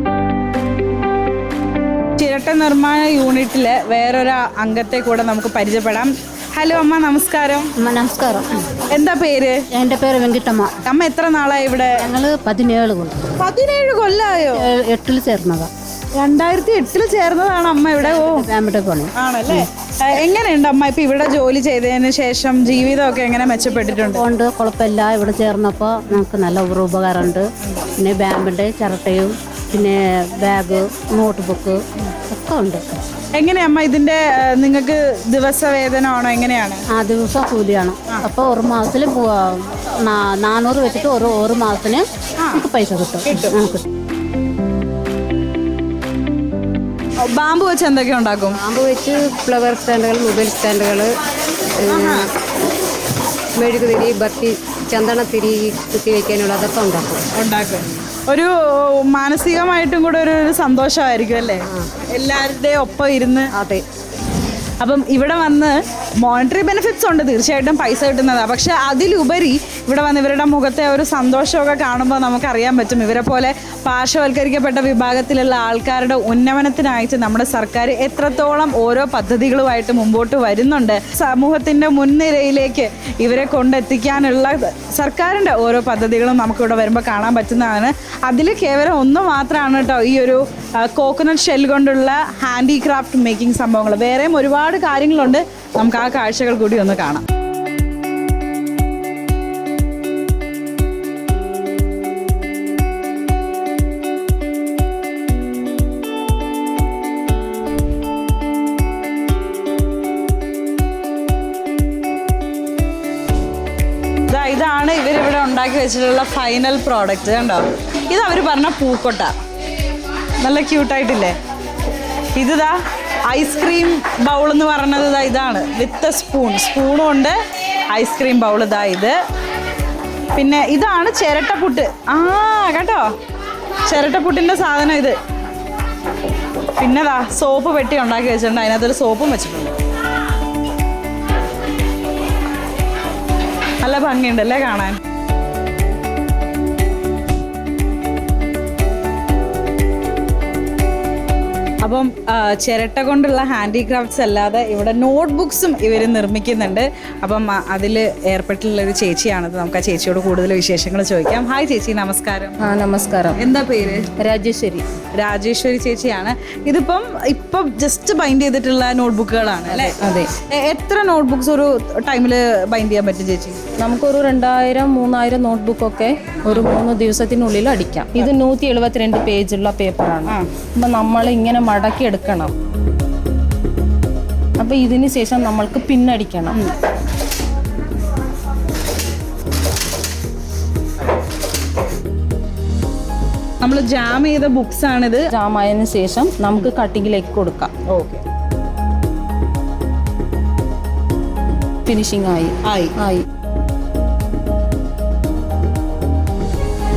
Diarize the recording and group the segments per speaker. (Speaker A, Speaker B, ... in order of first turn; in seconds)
Speaker A: 2.2-7.7, 8.9-9.6, 10.8-12.0, 13.4-14.6, 16.1-18.5, 19.2-24.2, 27.6-27.9, 33.4-36.8, 42.4-42.7, 43.3-43.6, 47.2-48.6, 51.9-52.3, 57.3-63.5, 64.8-97.2, 114.3-119.3, 120.4-121.3, 122.3-122.8, 123.3-127.4, 127.9-129.2, 130.4-133.1, 133.9-135.2, 136.8-139.7, 143.8-145.0, 151.8-162.6, 163.3-164.0, 165.2-173.6, 193.6-195.2, 197.9-198.2, 202.6-203.0
Speaker B: 7.8-8.7, 9.7-10.7, 12.0-13.2, 14.6-15.7, 18.1-19.6, 24.1-27.5, 28.0-32.8, 36.9-43.8
Speaker C: 48.6-51.1, 51.9-52.2, 53.6-57.2, 63.6-63.8
Speaker D: 162.6-163.5, 164.2-164.8, 169.7-170.3, 173.8-182.5, 184.6-186.6, 195.3-197.7, 201.9-203.2